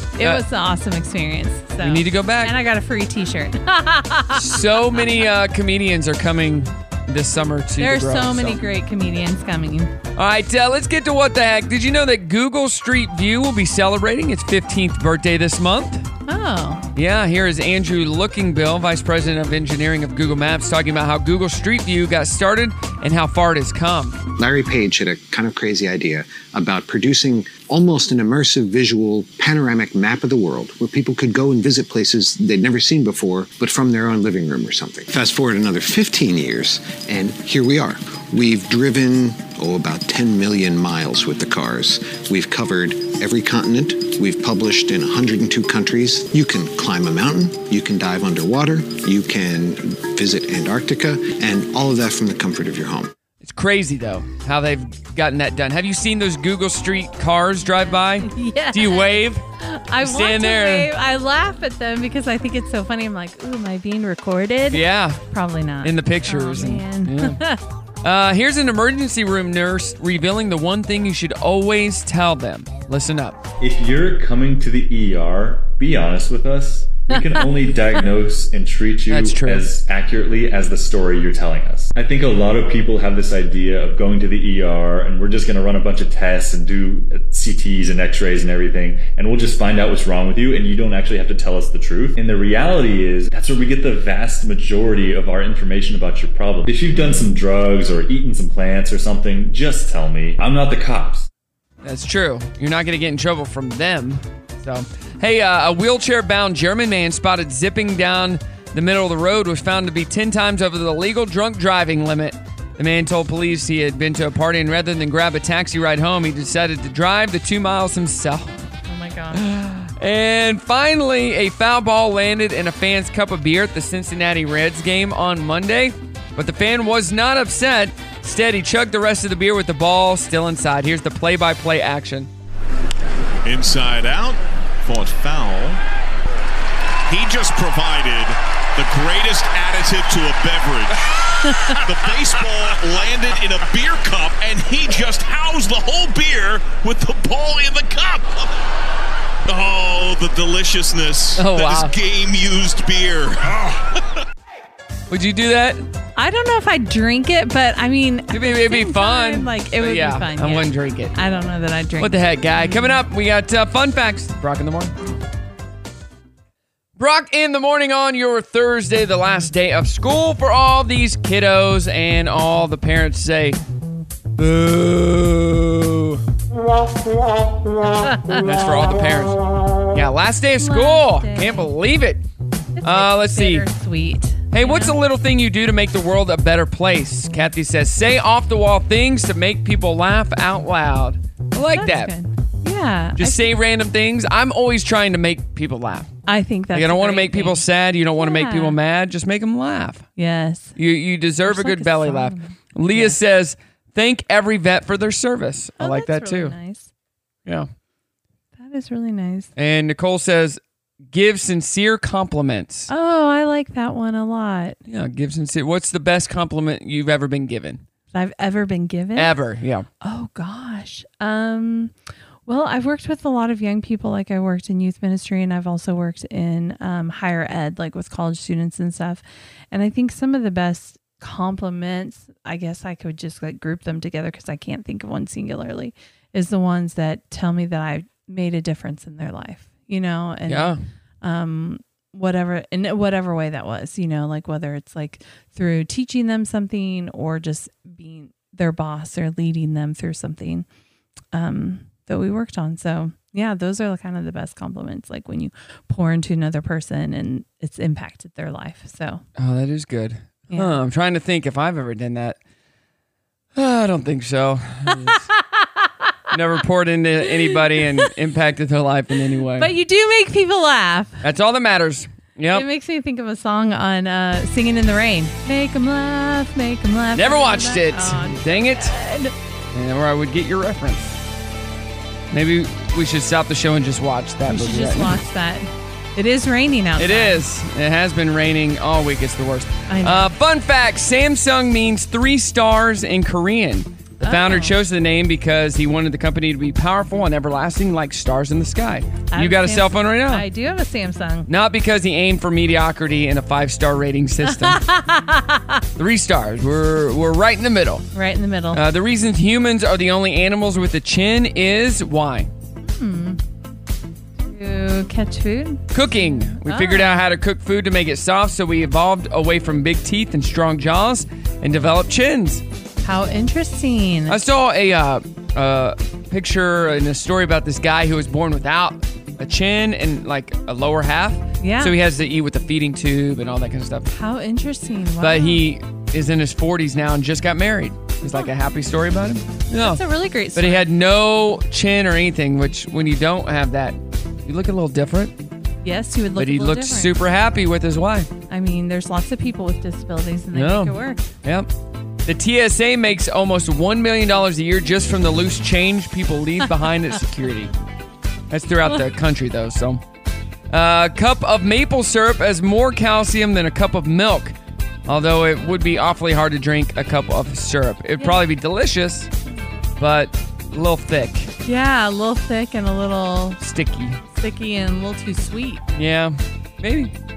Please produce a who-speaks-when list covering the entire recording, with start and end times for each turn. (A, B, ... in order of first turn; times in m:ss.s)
0:00.2-0:05.3 A
0:01.8-0:02.5 B
0:04.3-0:08.6 B
0:07.8-0:09.9 A
0:10.2-0:16.0 B
0:16.3-0:16.9 A
0:16.9-0:24.2 B
0:24.4-0:53.1 C
0:53.4-0:59.4 B
0:57.9-1:07.6 A
1:00.0-1:00.9 B
1:04.7-1:05.2 B
1:05.8-1:07.4 B
1:08.0-1:13.4 B
1:13.6-1:41.3 D
1:17.2-1:17.4 A
1:19.1-1:19.7 B
1:41.8-1:58.5 B
1:58.9-1:59.4 A
1:59.3-2:12.3 B
2:13.4-2:15.8 E
2:17.1-2:28.5 E
2:29.4-2:34.0 E
2:31.4-2:31.9 B
2:35.1-2:35.8 B
2:36.2-2:43.0 A
2:38.3-2:41.1 B
2:42.0-2:44.9 B
2:47.0-2:53.6 B
2:54.4-2:56.2 B
2:58.0-2:58.4 A
2:58.4-2:59.4 B
2:59.9-3:02.2 B
3:00.6-3:01.7 A
3:02.8-3:05.0 A
3:02.8-3:03.6 B
3:04.5-3:12.1 B
3:11.7-3:13.5 A
3:13.2-3:16.1 B
3:16.3-3:17.6 A
3:16.7-3:20.0 B
3:18.2-3:18.8 A
3:20.2-3:20.8 A
3:20.8-3:26.6 B
3:21.4-3:23.2 A
3:25.8-3:26.9 A
3:28.6-3:29.5 A
3:29.6-3:30.6 B
3:31.1-3:32.9 B
3:32.9-3:34.8 A
3:34.9-3:37.8 B
3:38.1-3:39.3 A
3:39.2-3:39.8 B
3:40.0-3:41.9 A
3:42.4-4:10.6 A
4:00.5-4:00.8 B
4:11.3-4:19.2 A
4:19.4-4:22.4 B
4:20.5-4:20.8 A
4:23.5-4:25.2 B
4:25.1-4:25.9 A
4:26.3-4:29.7 B
4:29.6-4:31.2 A
4:31.2-4:32.6 B
4:32.5-4:39.3 A
4:37.2-4:38.9 B
4:39.7-4:41.0 B
4:42.3-4:45.1 B
4:44.5-4:47.4 A
4:47.0-5:00.4 B
4:49.9-4:50.3 A
4:54.2-4:54.7 A
4:59.3-5:01.5 A
5:01.5-5:04.8 B
5:04.4-5:05.8 A
5:06.0-5:08.0 B
5:08.1-5:08.8 A
5:08.7-5:12.5 B
5:12.8-5:13.4 A
5:14.4-5:17.2 A
5:15.9-5:22.6 B
5:23.0-5:24.4 A
5:24.3-5:34.1 B
5:31.6-5:32.0 A
5:34.1-5:35.6 A
5:35.2-5:40.0 B
5:39.8-5:40.9 A
5:40.5-5:45.3 B
5:45.8-5:47.2 A
5:46.4-5:48.3 B
5:48.5-5:51.2 A
5:50.5-5:51.7 B
5:52.2-5:57.7 B
5:58.5-6:00.0 B
6:00.7-6:04.6 B
6:05.1-6:09.3 B
6:10.0-6:11.5 B
6:11.6-6:13.6 A
6:13.6-6:14.2 B
6:14.3-6:15.8 A
6:15.9-6:17.1 B